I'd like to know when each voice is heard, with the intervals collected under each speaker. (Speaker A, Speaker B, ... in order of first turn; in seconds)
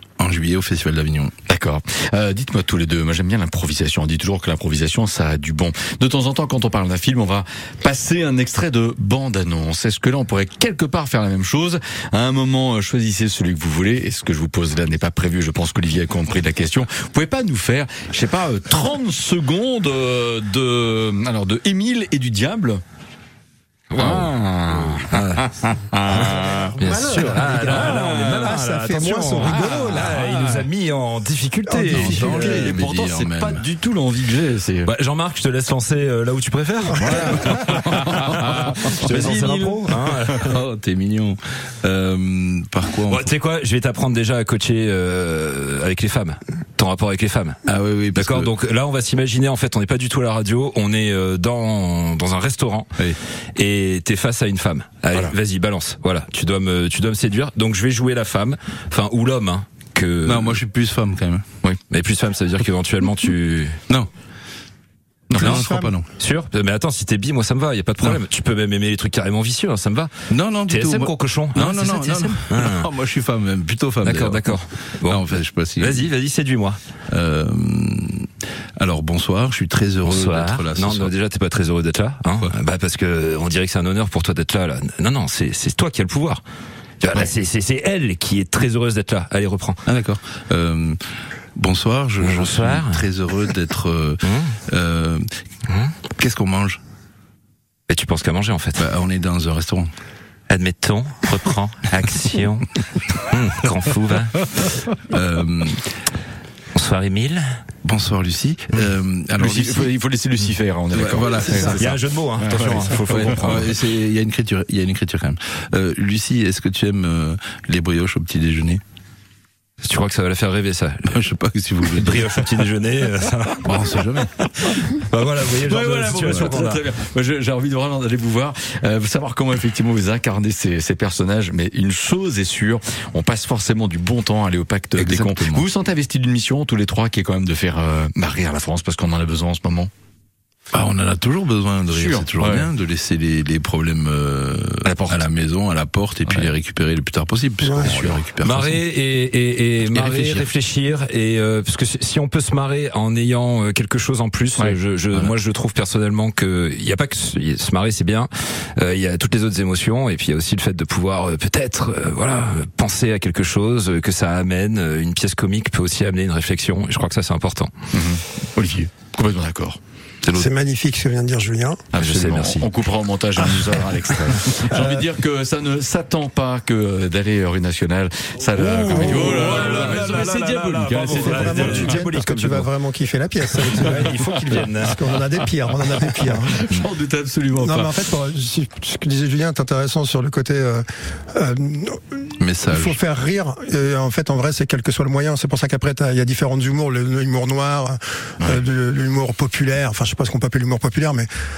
Speaker A: 0.2-1.3, 31.9-33.6, 40.3-43.3, 47.6-48.5, 60.2-61.4, 65.3-66.1, 70.3-76.1, 77.1-81.1, 89.8-91.0, 91.5-95.2, 96.1-96.8, 98.8-99.9, 105.1-105.8, 107.8-109.9, 110.9-111.9, 113.1-118.8, 121.1-122.7, 123.6-124.3, 134.9-135.7, 140.7-148.8, 149.8-150.4, 192.4-193.0
Speaker B: 1.5-22.8, 24.0-28.5, 29.5-30.6, 31.9-34.9, 37.0-40.0, 65.3-65.6, 109.4-113.5, 125.6-139.9, 141.9-142.7, 144.8-145.2, 147.8-148.2, 167.9-169.8, 171.9-182.0, 183.6-184.7, 186.2-187.9
Speaker C: 23.9-25.4, 26.0-32.6, 34.9-40.6, 43.1-47.6, 48.1-52.9, 53.5-60.6, 61.9-63.8, 66.2-70.1, 70.7-72.9, 74.0-75.2, 75.8-76.8, 80.0-86.4, 87.0-89.8, 92.2-93.0, 94.2-94.5, 95.7-95.9, 97.9-98.9, 100.5-102.7, 103.3-104.3, 106.7-107.5, 111.4-113.7, 119.8-121.2, 121.8-126.8, 148.4-167.7, 172.0-172.7, 178.6-182.7, 183.8-185.0
Speaker D: 26.1-30.2, 31.7-32.5, 37.1-37.4, 65.4-65.9, 147.6-147.9, 170.3-171.8, 174.6-175.1, 178.8-179.5, 181.1-186.6, 187.6-201.3